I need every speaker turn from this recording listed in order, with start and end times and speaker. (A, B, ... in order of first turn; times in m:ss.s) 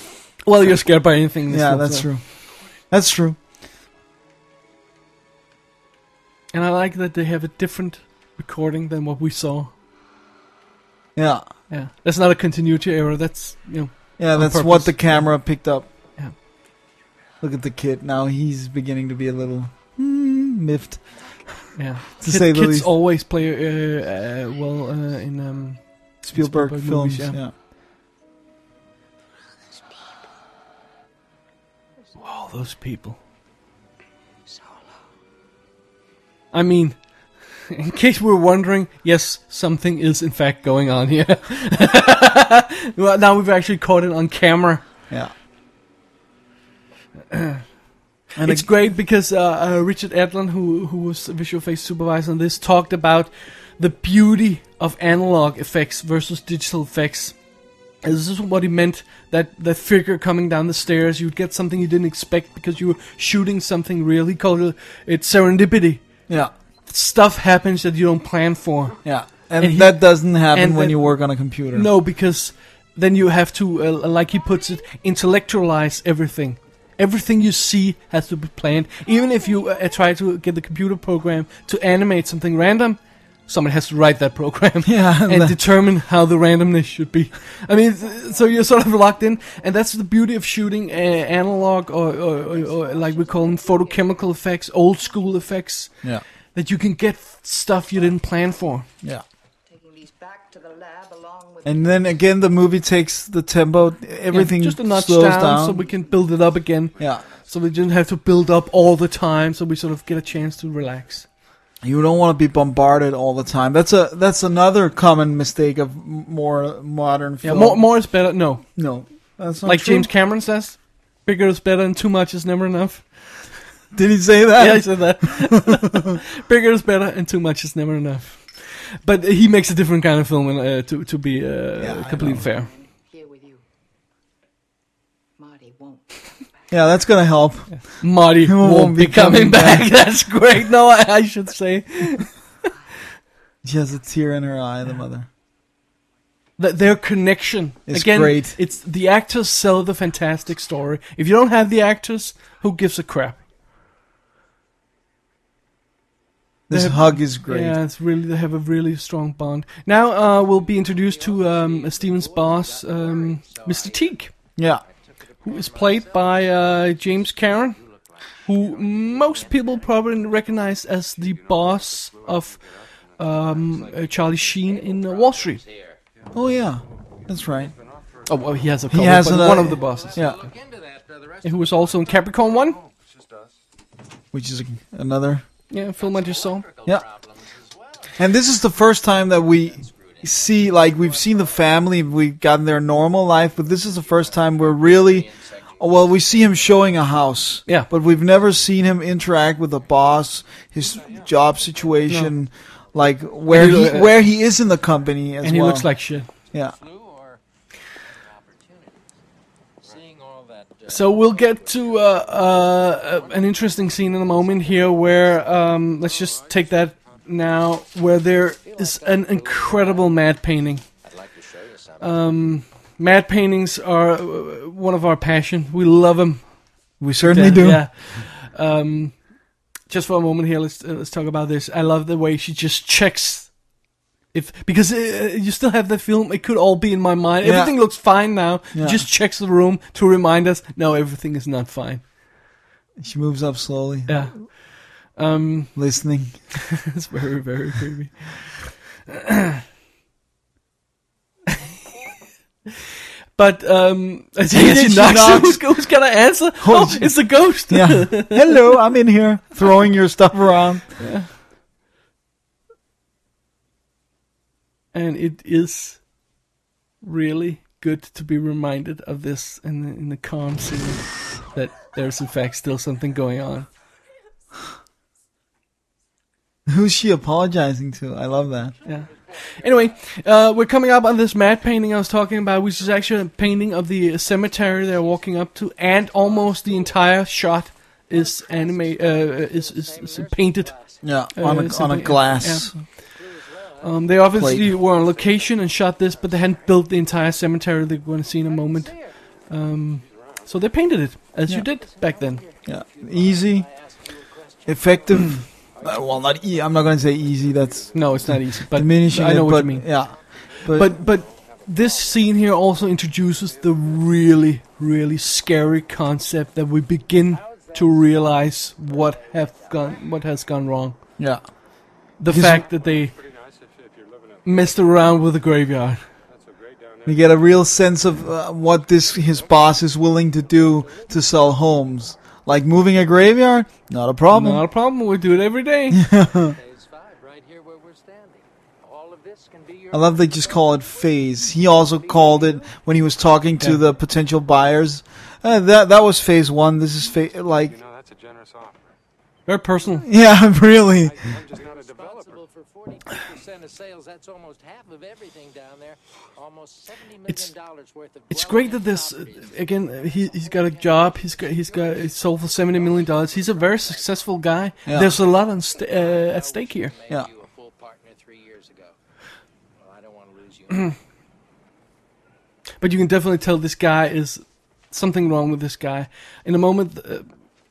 0:00.4-0:02.1 A
0:01.5-0:03.4 B
0:06.5-0:09.7 A
0:11.2-0:11.4 B
0:11.7-0:15.3 A
0:14.2-0:15.9 B
0:17.4-0:21.0 B
0:21.8-0:27.4 A
0:22.2-0:22.9 B
0:26.2-0:27.5 B
0:32.2-0:33.2 A
0:36.5-0:44.8 A
0:47.3-0:47.6 A
0:48.4-0:48.7 B
0:48.4-0:57.4 A
0:58.0-1:06.0 A
1:06.9-1:09.0 A
1:09.0-1:11.9 B
1:09.6-1:11.1 A
1:11.7-1:35.9 A
1:24.8-1:25.6 B
1:32.5-1:33.4 C
1:36.6-1:38.9 A
1:39.7-1:42.0 C
1:41.6-1:45.8 B
1:44.3-1:51.3 A
1:47.0-1:47.3 D
1:51.8-1:58.1 B
1:57.4-1:58.7 A
1:58.8-2:00.1 B
1:59.6-2:03.5 A
2:03.9-2:05.8 B
2:04.6-2:12.7 A
2:11.8-2:12.5 B
2:12.7-2:13.6 C
2:15.4-2:16.1 C
2:16.7-2:19.9 B
2:17.7-2:22.4 A
2:23.6-2:25.3 B
2:26.6-2:33.4 A
2:27.9-2:28.6 B
2:36.7-2:37.8 B
2:36.7-2:44.3 A
2:40.4-2:50.4 E
2:45.4-2:47.8 A
2:48.5-2:52.6 A
2:50.2-2:54.4 D
2:53.2-2:55.6 A
2:53.5-2:56.0 E
2:56.2-2:59.2 D
2:56.3-2:57.7 B
2:58.3-3:00.2 A
2:58.9-3:00.4 B
2:59.2-3:02.8 E
2:59.8-3:00.4 D
3:01.4-3:02.8 A
3:02.6-3:03.5 D
3:04.3-3:05.4 B
3:05.7-3:06.7 A
3:05.9-3:08.2 E
3:08.2-3:25.9 B
3:09.4-3:11.7 E
3:13.9-3:16.8 E
3:20.9-3:21.2 E
3:22.1-3:22.3 A
3:23.5-3:24.2 A
3:25.4-3:26.3 A
3:26.6-3:27.4 E
3:28.0-3:29.1 E
3:29.8-3:37.2 E
3:30.9-3:40.8 A
3:38.3-3:40.2 E
3:41.0-3:42.6 E
3:42.0-3:49.3 A
3:47.0-3:47.8 B
3:49.9-3:53.6 A
3:54.3-4:02.0 A
3:57.4-3:58.0 B
3:58.7-3:59.0 B
4:03.0-4:04.1 B
4:04.1-4:05.8 A
4:05.8-4:06.6 B
4:06.7-4:09.6 A
4:11.5-4:11.7 A
4:13.4-4:18.6 A
4:14.5-4:15.7 B
4:16.6-4:20.9 B
4:21.0-4:21.3 A
4:24.9-4:26.0 A
4:27.0-4:33.7 A
4:36.7-4:38.7 B
4:38.8-4:39.8 E
4:38.8-4:50.8 A
4:44.3-4:47.3 E
4:48.1-4:57.3 E
4:51.0-4:52.8 B
4:51.4-4:52.9 A
4:53.8-4:59.0 A
4:54.3-4:54.7 B
4:58.2-4:59.5 E
4:59.5-5:02.4 A
5:00.0-5:00.5 D
5:01.5-5:08.3 E
5:02.6-5:03.7 B
5:04.7-5:11.0 B
5:05.8-5:06.3 D
5:07.0-5:08.4 D
5:07.9-5:10.0 A
5:09.2-5:14.3 E
5:10.7-5:21.0 A
5:10.7-5:11.6 D
5:17.1-5:20.6 E
5:21.2-5:21.4 B
5:22.2-5:23.1 A
5:22.3-5:22.6 B
5:22.5-5:25.3 D
5:24.4-5:26.0 A
5:26.3-5:27.9 D
5:27.1-5:34.7 B
5:29.0-5:29.6 D
5:30.8-5:31.1 E
5:30.8-5:31.1 D
5:34.3-5:36.0 A
5:35.9-5:36.6 B
5:36.1-5:42.8 E
5:39.9-5:47.8 B
5:47.6-5:48.9 D
5:49.5-5:50.1 A
5:50.1-5:51.2 B
5:50.8-5:52.4 D
5:51.0-6:09.0 E
5:58.3-6:06.9 A
6:04.9-6:05.1 B
6:09.8-6:11.0 E
6:12.8-6:17.3 A